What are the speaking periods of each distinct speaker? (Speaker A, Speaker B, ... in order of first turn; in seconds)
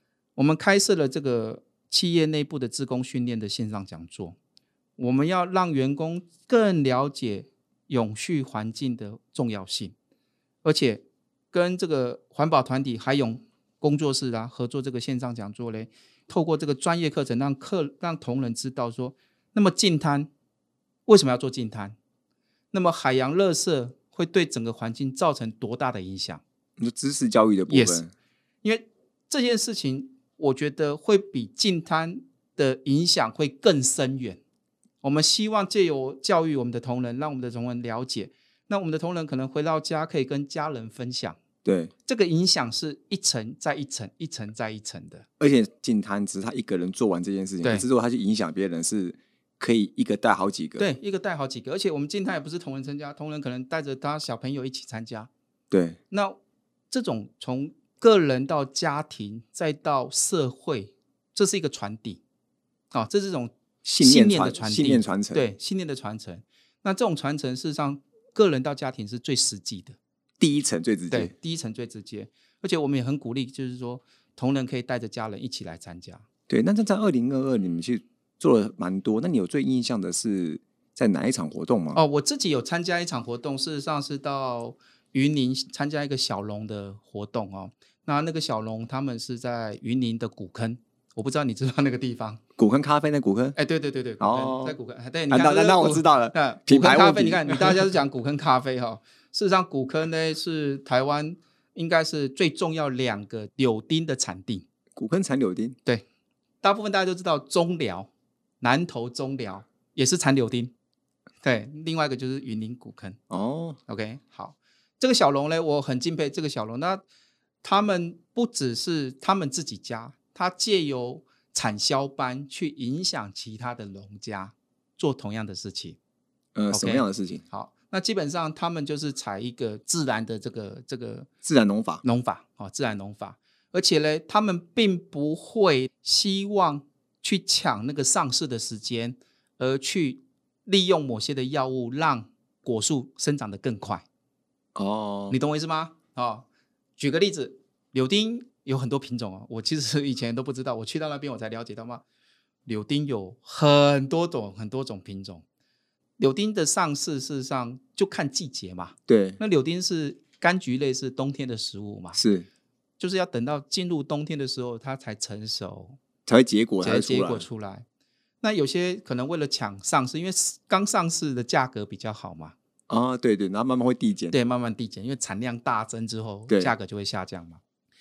Speaker A: 0.4-4.4, 5.0-9.9, 10.6-20.3, 21.1-22.0, 22.7-26.4, 27.7-28.0, 28.6-34.4, 35.0-41.4, 42.1-45.3, 50.8-55.3, 56.1-56.4, 56.9-62.2, 62.9-70.0, 71.1-76.3, 81.9-92.4, 93.6-104.7, 106.6-108.1, 108.6-110.7, 111.4-113.2, 113.9-117.0, 117.6-126.0, 126.7-131.3, 132.0-144.1, 145.3-146.5, 147.0-152.0, 152.7-155.4, 156.2-162.2, 163.0-166.0, 166.8-167.9, 168.4-172.6, 174.3-177.6
Speaker B: 26.8-28.1, 41.6-41.9, 45.4-50.9, 55.7-56.0, 63.9-65.5, 70.4-71.3, 76.5-82.0, 92.6-93.6, 94.2-94.8, 95.3-97.9, 105.0-105.8, 113.3-113.8, 126.5-127.4, 131.4-132.0, 144.8-145.4, 159.1-159.4, 162.1-162.5, 166.3-167.5, 172.9-174.3, 176.5-176.7